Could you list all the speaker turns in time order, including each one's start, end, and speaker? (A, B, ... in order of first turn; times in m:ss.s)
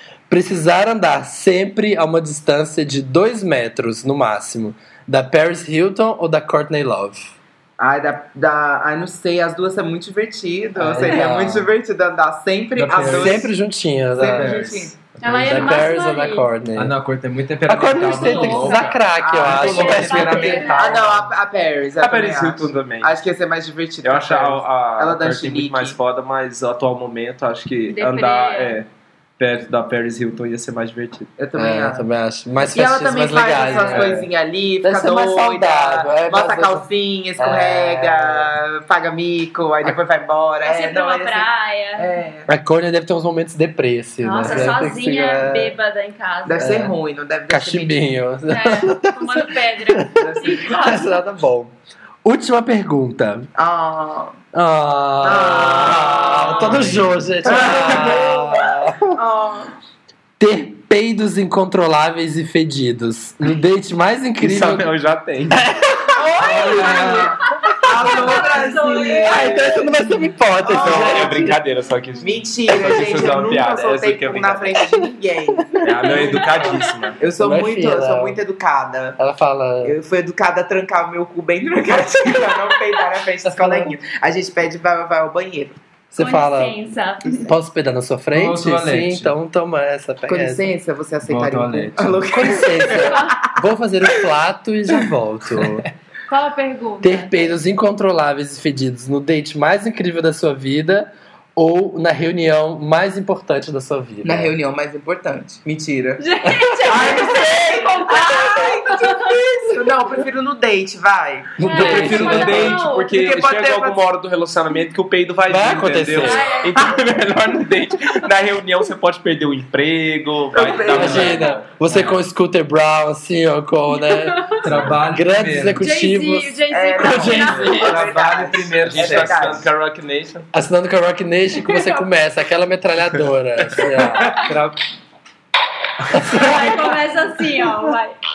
0:00.3-0:07.3 A
0:07.8-0:13.5 B
0:10.8-0:11.7 A
0:12.8-0:13.4 C
0:12.9-0:14.6 A
0:14.1-0:15.0 B
0:14.3-0:14.9 C
0:15.2-0:16.5 D
0:15.2-0:16.9 A
0:16.7-0:21.1 C
0:17.7-0:20.7 A
0:18.0-0:21.2 D
0:19.2-0:26.0 B
0:22.0-0:23.2 E
0:24.0-0:28.9 E
0:27.9-0:28.8 D
0:29.4-0:31.3 E
0:31.4-0:32.0 B
0:31.6-0:34.3 A
0:32.6-0:42.5 B
0:33.6-0:33.9 D
0:34.8-0:36.8 A
0:37.4-0:38.5 A
0:40.6-0:42.1 D
0:42.5-0:45.8 A
0:44.2-0:46.7 D
0:44.4-0:44.8 B
0:46.4-0:48.0 B
0:46.6-0:46.9 A
0:47.5-0:51.7 A
0:48.5-0:51.2 D
0:50.2-0:50.7 B
0:52.2-0:53.5 A
0:53.5-0:54.4 B
0:54.5-0:59.2 A
0:55.2-0:56.9 B
0:56.7-0:57.0 C
0:57.4-0:59.7 B
1:00.4-1:04.9 A
1:04.4-1:05.7 E
1:05.5-1:07.0 A
1:06.2-1:09.7 D
1:06.4-1:07.4 C
1:07.8-1:09.6 B
1:09.2-1:11.6 A
1:10.6-1:11.5 B
1:10.7-1:14.8 E
1:12.2-1:15.8 B
1:15.7-1:16.4 A
1:15.8-1:17.2 E
1:16.1-1:16.8 D
1:17.2-1:19.2 B
1:17.4-1:18.4 A
1:19.2-1:19.9 A
1:19.8-1:25.8 B
1:23.5-1:23.9 A
1:26.1-1:30.6 A
1:26.2-1:27.4 D
1:28.3-1:29.3 C
1:30.3-1:33.4 B
1:31.2-1:32.2 C
1:32.3-1:35.8 A
1:32.9-1:33.4 D
1:36.3-1:37.5 D
1:37.0-1:44.5 A
1:44.2-1:46.2 B
1:46.2-1:49.7 D
1:46.4-1:47.5 A
1:46.8-1:51.5 B
1:51.6-1:52.8 A
1:51.6-1:53.2 D
1:51.7-2:01.6 E
1:53.1-1:54.0 B
1:55.5-1:56.5 A
1:56.2-1:56.8 D
2:00.5-2:01.4 B
2:00.9-2:08.0 A
2:01.0-2:01.3 C
2:01.3-2:01.6 D
2:01.9-2:02.2 C
2:04.0-2:04.6 D
2:04.6-2:05.8 C
2:04.6-2:05.0 E
2:05.8-2:08.0 D
2:06.7-2:09.7 B
2:07.7-2:09.6 C
2:08.8-2:10.5 E
2:10.5-2:14.5 A
2:11.6-2:12.0 D
2:14.0-2:14.8 C
2:16.1-2:17.0 A
2:16.3-2:18.2 D